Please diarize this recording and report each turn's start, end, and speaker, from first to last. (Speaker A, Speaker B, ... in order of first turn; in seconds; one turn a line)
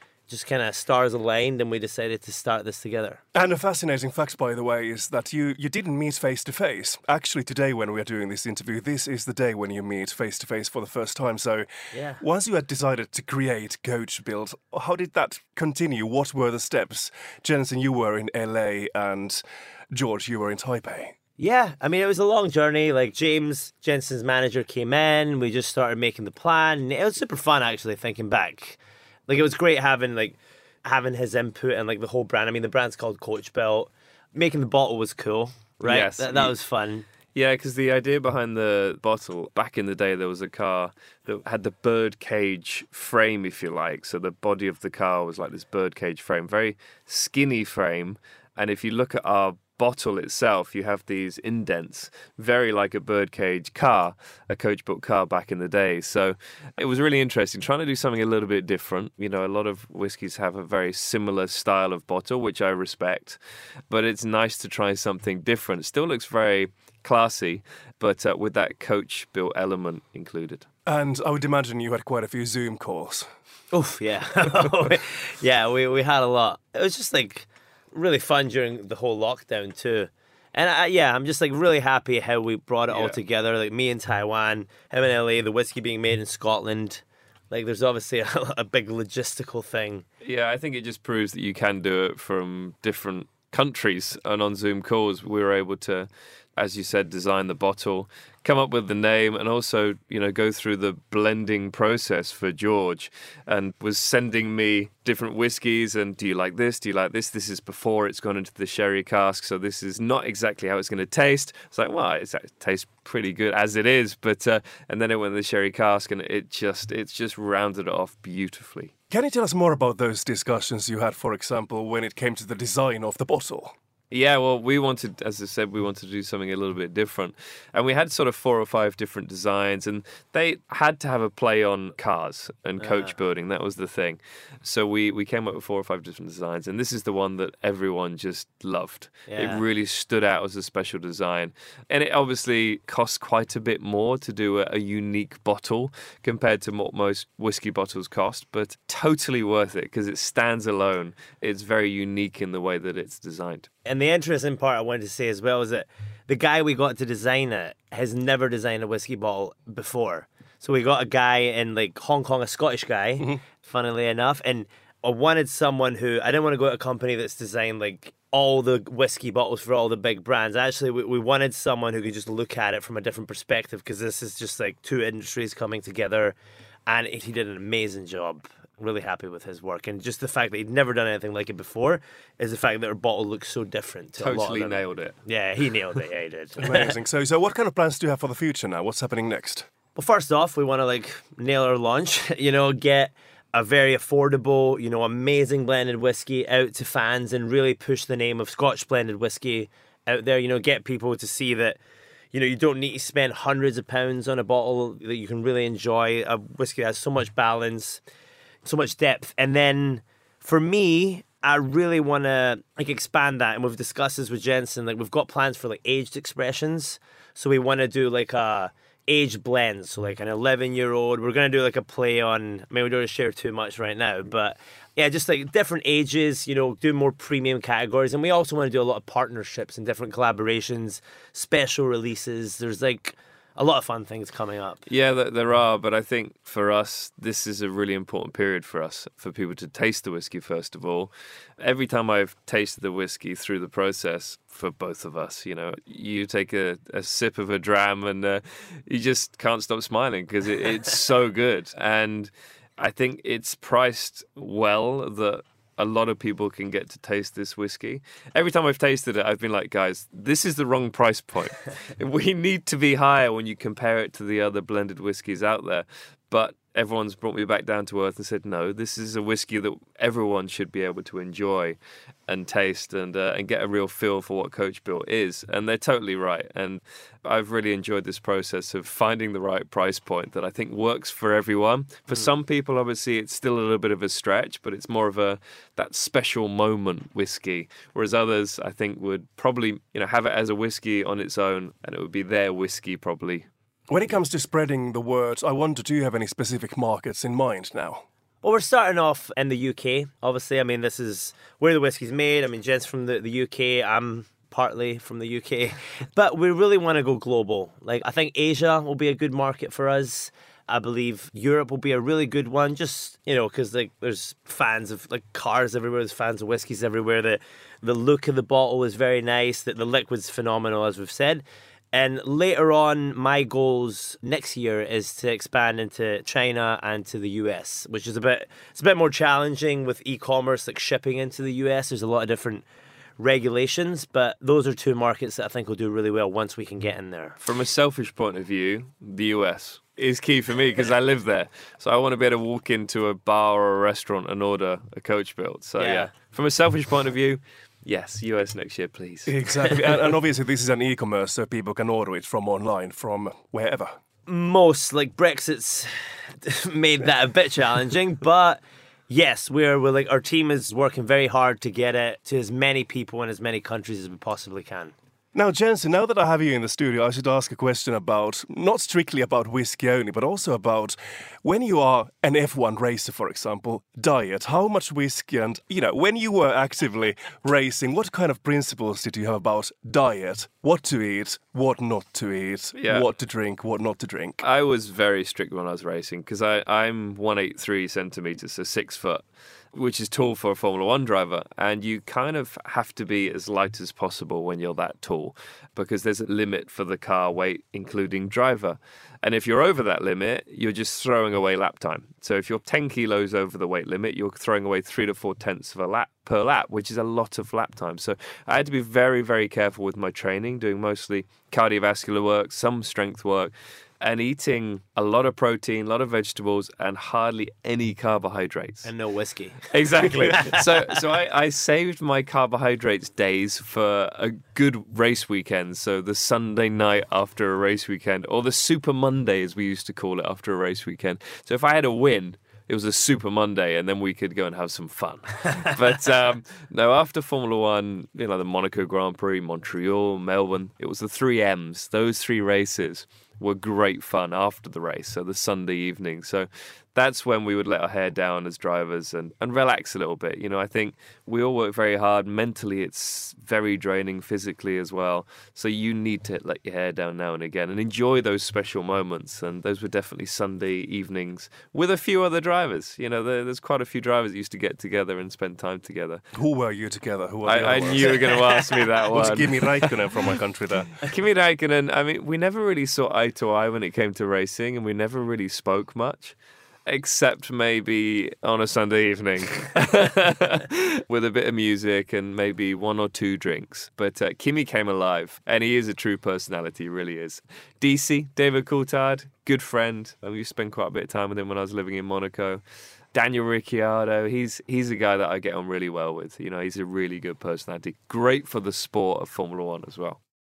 Speaker A: 0.3-3.2
Speaker B: 3.3-21.1
Speaker A: 11.9-12.2
Speaker A: 21.4-37.0
Speaker C: 35.8-36.5
Speaker C: 37.3-63.4
Speaker C: 63.9-70.7
Speaker B: 70.9-73.3
Speaker A: 73.7-90.0
Speaker C: 82.9-83.2
Speaker C: 90.2-118.9
Speaker B: 119.1-123.8
Speaker C: 124.1-153.7
Speaker A: 132.8-133.2
Speaker A: 139.3-139.6
Speaker A: 153.8-176.3
Speaker A: 176.9-186.9
Speaker C: 184.2-185.1
Speaker B: 186.6-189.7
Speaker A: 189.9-201.8
Speaker A: 202.3-208.0
Speaker A: 208.6-234.8
Speaker C: 234.9-293.4
Speaker B: 293.9-298.1
Speaker A: 298.4-332.6
Speaker A: 333.2-337.4
Speaker C: 337.4-349.7
Speaker A: 345.8-346.1
Speaker B: 349.2-354.0
Speaker A: 354.3-364.9
Speaker B: 365.3-384.4
Speaker C: 382.8-383.1
Speaker C: 384.4-389.2
Speaker C: 389.7-418.9
Speaker A: 418.8-420.8
Speaker C: 419.7-466.2
Speaker B: 466.3-470.9
Speaker C: 467.4-470.2
Speaker C: 471.0-492.6
Speaker C: 493.1-500.2